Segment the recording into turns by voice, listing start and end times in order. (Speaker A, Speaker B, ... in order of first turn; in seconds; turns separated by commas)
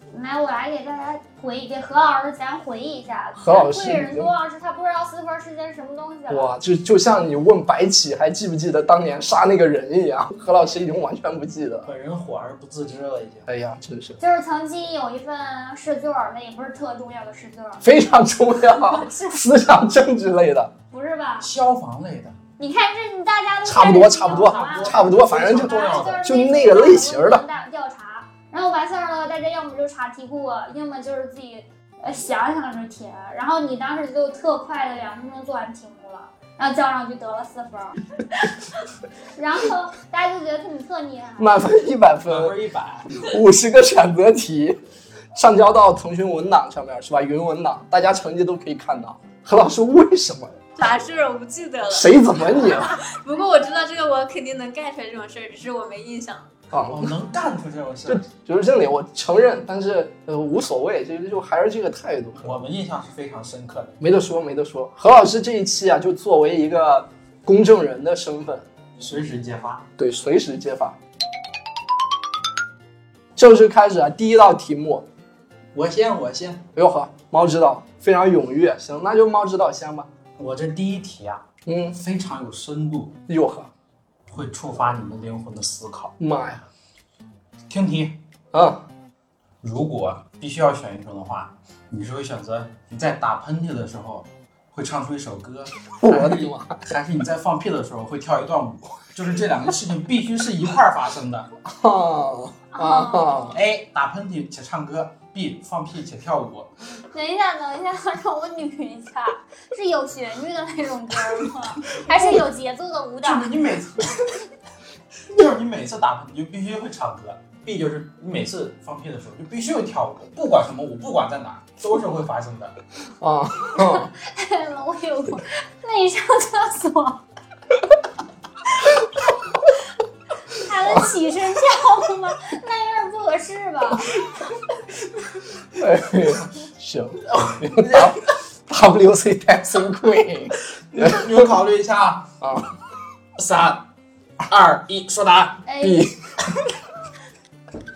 Speaker A: 0.1-6.5, Speaker B: 3.4-4.3, Speaker B: 6.3-11.9, Speaker C: 11.8-13.5, Speaker B: 13.5-14.2, Speaker A: 14.2-17.9, Speaker B: 17.8-20.7, Speaker A: 18.8-19.5, Speaker A: 20.9-21.5, Speaker C: 21.4-22.4, Speaker A: 22.6-38.4, Speaker B: 23.6-27.4, Speaker C: 24.2-26.2, Speaker A: 39.4-41.7, Speaker B: 41.4-42.6, Speaker C: 42.3-43.3, Speaker B: 43.2-44.8, Speaker B: 45.3-50.7, Speaker D: 50.8-56.5, Speaker B: 51.9-53.0, Speaker B: 56.7-57.1, Speaker C: 56.9-58.2, Speaker B: 58.1-62.6, Speaker C: 62.4-64.0, Speaker B: 64.0-68.7, Speaker C: 69.0-69.9, Speaker B: 70.0-71.0, Speaker B: 73.4-75.1, Speaker C: 75.7-76.7, Speaker B: 76.8-80.1, Speaker C: 80.4-83.2, Speaker B: 81.7-82.0, Speaker B: 83.3-83.7, Speaker C: 84.3-86.1, Speaker B: 86.2-86.7, Speaker C: 87.7-88.2, Speaker B: 88.5-88.8, Speaker C: 89.6-101.5, Speaker B: 96.0-96.8, Speaker B: 101.7-103.6, Speaker A: 102.7-103.5, Speaker C: 103.5-106.7, Speaker A: 107.1-113.5, Speaker C: 113.2-114.4, Speaker C: 115.3-122.8, Speaker B: 123.2-124.1, Speaker A: 123.7-127.2, Speaker A: 130.5-134.2, Speaker B: 130.9-131.1, Speaker B: 135.7-141.4, Speaker C: 137.3-138.2, Speaker C: 140.9-142.3, Speaker B: 142.4-142.7, Speaker C: 143.4-143.9, Speaker C: 144.4-145.7, Speaker A: 145.7-146.1, Speaker B: 145.8-146.7